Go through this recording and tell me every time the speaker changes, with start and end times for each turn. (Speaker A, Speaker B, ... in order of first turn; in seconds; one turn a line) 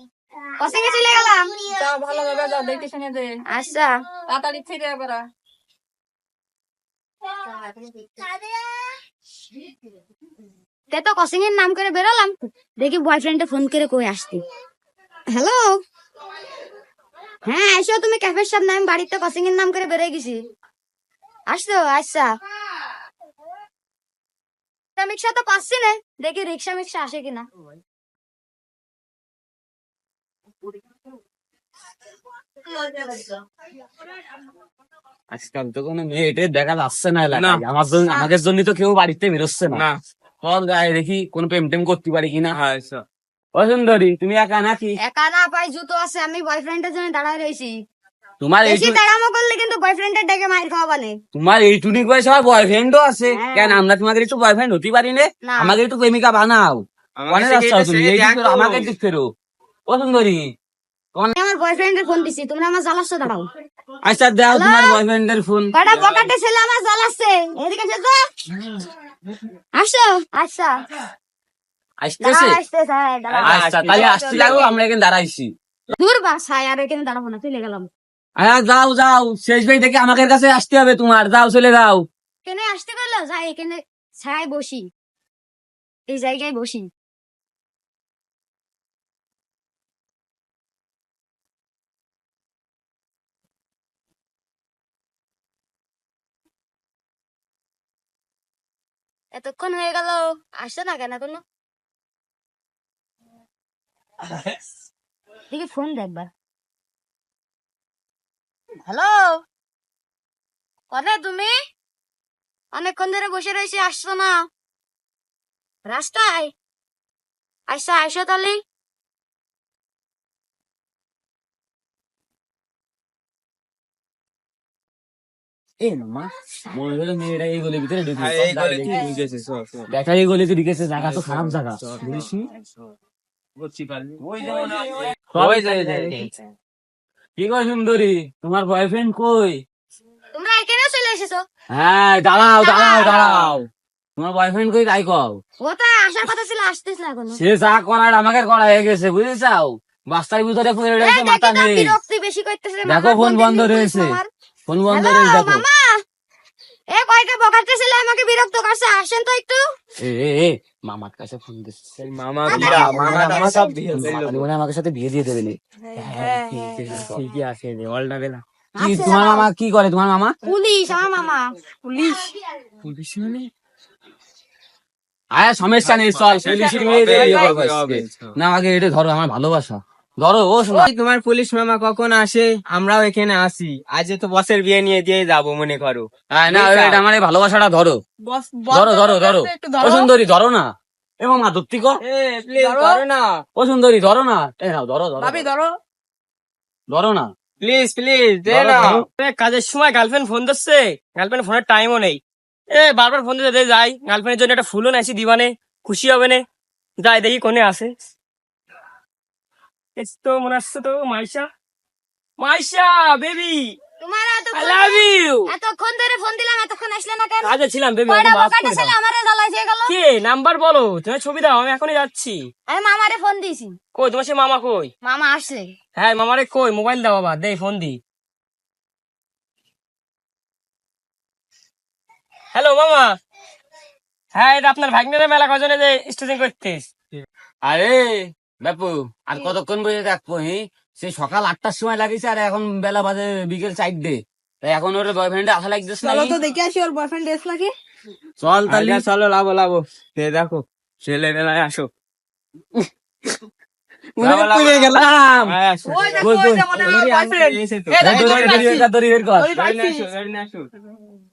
Speaker A: 0.6-1.5
Speaker B: 1.8-3.3
Speaker A: 3.5-4.0
Speaker B: 4.3-5.2
Speaker A: 8.1-8.5
Speaker A: 10.9-14.4
Speaker A: 15.3-15.8
Speaker A: 17.4-20.4
Speaker A: 21.5-22.3
Speaker A: 25.0-27.5
Speaker A: 32.9-33.1
Speaker C: 35.3-39.8
Speaker D: 37.3-37.6
Speaker D: 39.7-40.0
Speaker C: 40.4-42.6
Speaker D: 42.5-43.0
Speaker C: 43.5-45.0
Speaker A: 45.0-47.8
Speaker C: 48.4-49.0
Speaker A: 48.6-51.2
Speaker C: 51.3-59.3
Speaker A: 53.3-53.8
Speaker A: 55.5-55.8
Speaker D: 57.2-58.9
Speaker C: 59.9-60.5
Speaker A: 61.4-63.5
Speaker C: 64.0-65.7
Speaker A: 64.5-65.0
Speaker A: 65.7-68.2
Speaker D: 65.9-66.3
Speaker A: 69.7-70.7
Speaker C: 72.0-72.6
Speaker A: 72.2-74.7
Speaker D: 73.3-74.6
Speaker C: 73.4-75.5
Speaker A: 75.9-77.9
Speaker C: 78.4-82.0
Speaker A: 82.4-84.9
Speaker A: 86.1-86.9
Speaker A: 99.3-101.4
Speaker A: 105.5-106.3
Speaker A: 108.8-109.4
Speaker A: 110.9-111.5
Speaker A: 112.7-114.5
Speaker A: 115.8-116.5
Speaker A: 117.7-118.6
Speaker C: 125.8-129.1
Speaker D: 128.1-129.9
Speaker C: 129.9-131.8
Speaker D: 131.0-132.5
Speaker D: 133.6-134.8
Speaker C: 134.2-136.3
Speaker D: 135.3-136.4
Speaker C: 137.4-139.6
Speaker A: 140.3-141.4
Speaker C: 141.7-143.6
Speaker A: 142.6-143.3
Speaker D: 143.0-143.5
Speaker C: 144.2-145.4
Speaker A: 145.6-147.4
Speaker C: 147.3-151.9
Speaker A: 151.0-154.3
Speaker C: 152.8-155.6
Speaker A: 154.9-156.0
Speaker A: 156.9-159.6
Speaker C: 160.0-161.8
Speaker D: 162.0-164.5
Speaker A: 162.4-163.7
Speaker C: 162.5-165.6
Speaker E: 166.0-168.4
Speaker C: 166.1-167.2
Speaker A: 168.8-169.5
Speaker C: 168.8-170.3
Speaker A: 170.4-172.3
Speaker C: 175.3-180.9
Speaker D: 175.8-178.3
Speaker E: 176.7-177.1
Speaker D: 180.7-187.0
Speaker C: 186.3-188.0
Speaker B: 188.2-190.1
Speaker C: 188.7-190.7
Speaker C: 191.2-192.0
Speaker D: 192.0-193.4
Speaker B: 192.6-193.0
Speaker C: 193.6-195.5
Speaker B: 195.2-195.7
Speaker C: 196.9-197.3
Speaker D: 197.6-199.0
Speaker E: 198.6-202.2
Speaker E: 202.7-206.4
Speaker E: 207.0-207.9
Speaker E: 210.0-211.5
Speaker E: 212.4-213.8
Speaker A: 214.0-217.5
Speaker E: 214.5-215.5
Speaker E: 217.4-218.9
Speaker A: 218.1-219.9
Speaker E: 219.9-222.5
Speaker A: 222.7-223.8
Speaker E: 223.9-224.9
Speaker A: 225.0-225.7
Speaker E: 225.9-228.0
Speaker E: 232.5-233.2
Speaker E: 234.3-236.9
Speaker C: 237.6-246.4
Speaker B: 246.1-247.7
Speaker C: 248.4-249.0
Speaker D: 248.7-251.9
Speaker C: 254.2-255.5
Speaker D: 254.2-258.7
Speaker B: 255.8-258.9
Speaker C: 256.2-256.9
Speaker C: 258.0-259.5
Speaker B: 259.4-260.1
Speaker D: 259.5-260.7